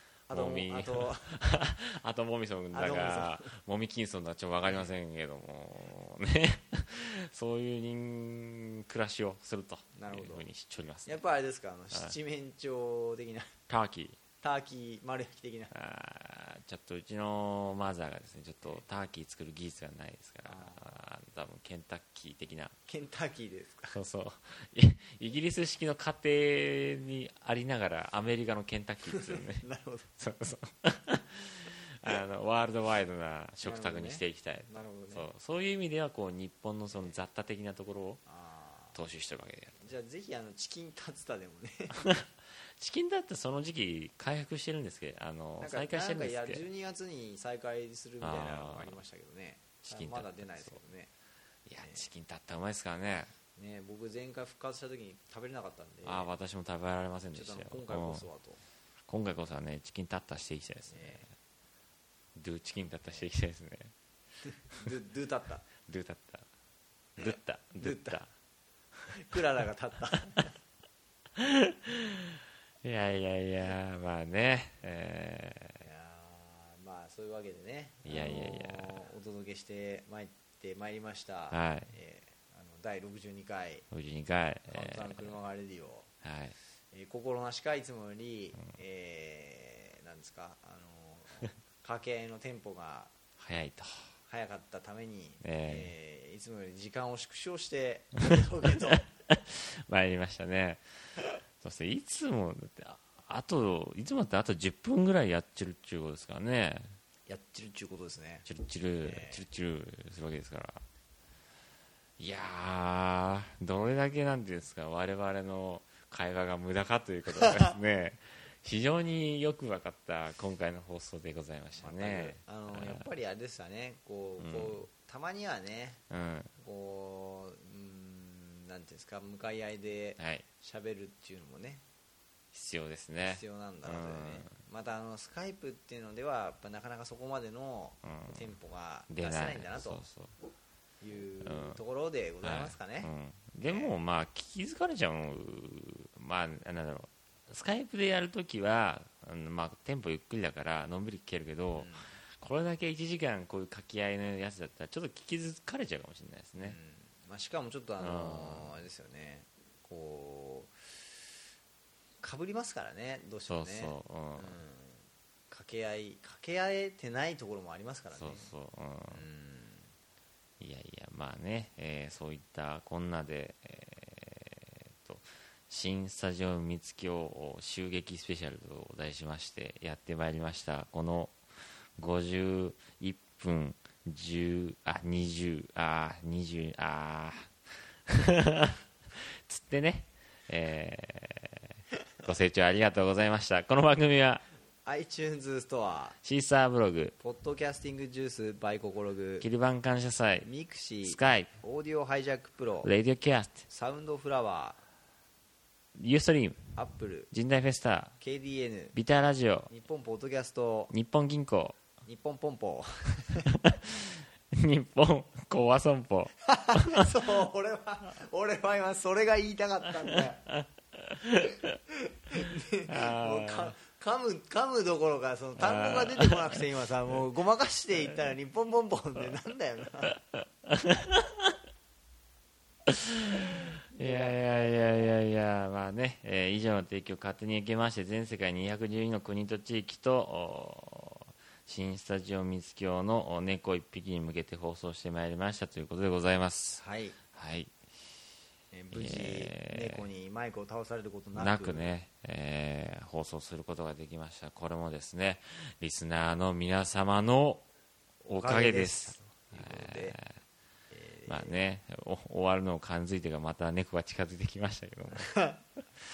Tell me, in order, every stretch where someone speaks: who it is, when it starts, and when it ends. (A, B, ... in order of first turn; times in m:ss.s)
0:00.3-0:01.3 A
0:00.3-0:11.2 B
0:02.7-0:03.5 A
0:09.9-0:10.4 A
0:11.0-0:13.6 A
0:13.7-0:14.2 B
0:14.4-0:15.7 A
0:15.7-0:22.7 B
0:20.5-0:21.0 A
0:22.9-0:24.0 A
0:23.9-0:38.2 B
0:29.1-0:30.1 A
0:33.6-0:35.3 A
0:38.3-0:39.0 A
0:38.9-0:39.9 B
0:39.8-0:42.1 A
0:41.9-0:46.6 B
0:45.6-0:51.1 A
0:48.2-0:49.0 B
0:49.9-0:50.8 B
0:51.6-0:53.3 B
0:53.6-0:56.3 A
0:56.0-0:58.2 B
0:57.3-0:58.6 A
0:59.1-1:01.3 B
1:00.9-1:01.2 A
1:02.4-1:03.9 B
1:04.5-1:05.6 A
1:05.8-1:06.4 B
1:07.2-1:08.3 B
1:07.8-1:08.2 A
1:09.1-1:10.5 A
1:10.2-1:10.5 B
1:11.4-1:15.8 B
1:15.8-1:23.9 A
1:18.0-1:19.0 B
1:21.5-1:21.9 B
1:23.9-1:25.4 B
1:24.7-1:26.1 A
1:26.2-1:26.5 B
1:26.9-1:33.1 A
1:33.4-1:34.1 B
1:34.3-1:39.0 A
1:35.4-1:35.9 B
1:38.3-1:40.8 B
1:41.6-1:47.0 B
1:47.3-1:48.4 A
1:48.4-1:50.8 B
1:49.0-1:49.4 A
1:52.2-2:03.0 B
2:01.8-2:06.0 A
2:04.4-2:04.8 B
2:06.1-2:06.5 B
2:06.6-2:11.8 A
2:10.2-2:10.4 B
2:12.5-2:14.5 B
2:13.2-2:20.0 A
2:18.0-2:18.4 B
2:19.1-2:20.3 B
2:21.0-2:23.1 A
2:21.4-2:21.8 B
2:22.4-2:36.8 B
2:23.6-2:23.9 A
2:31.8-2:32.2 A
2:36.6-2:41.0 A
2:38.0-2:38.8 B
2:42.2-2:48.5 A
2:43.5-2:44.6 B
2:48.1-2:49.2 B
2:49.1-2:49.9 A
2:50.6-3:01.4 B
3:02.0-3:07.5 B
3:08.1-3:11.7 B
3:12.2-3:14.4 B
3:14.8-3:16.2 A
3:16.2-3:17.1 B
3:17.2-3:19.4 A
3:19.4-3:20.5 B
3:20.4-3:22.9 A
3:21.0-3:21.5 B
3:22.8-3:23.6 B
3:23.7-3:24.8 A
3:26.0-3:26.7 B
3:26.8-3:27.3 A
3:27.3-3:28.2 B
3:28.2-3:29.0 A
3:28.9-3:29.7 B
3:29.7-3:30.9 A
3:30.9-3:31.8 B
3:32.0-3:33.4 A
3:33.4-3:37.1 B
3:36.4-3:40.4 A
3:40.1-3:41.8 B
3:41.9-3:50.1 A
3:42.8-3:43.7 B
3:45.6-3:46.7 B
3:50.3-3:51.5 B
3:52.9-4:07.7 B
3:54.0-3:55.1 A
4:06.8-4:07.2 A
4:08.7-4:11.8 A
4:08.9-4:10.1 B
4:11.3-4:17.6 B
4:18.2-4:20.2 A
4:18.3-4:20.4 B
4:20.9-4:21.6 A
4:21.3-4:25.3 B
4:25.1-4:25.6 A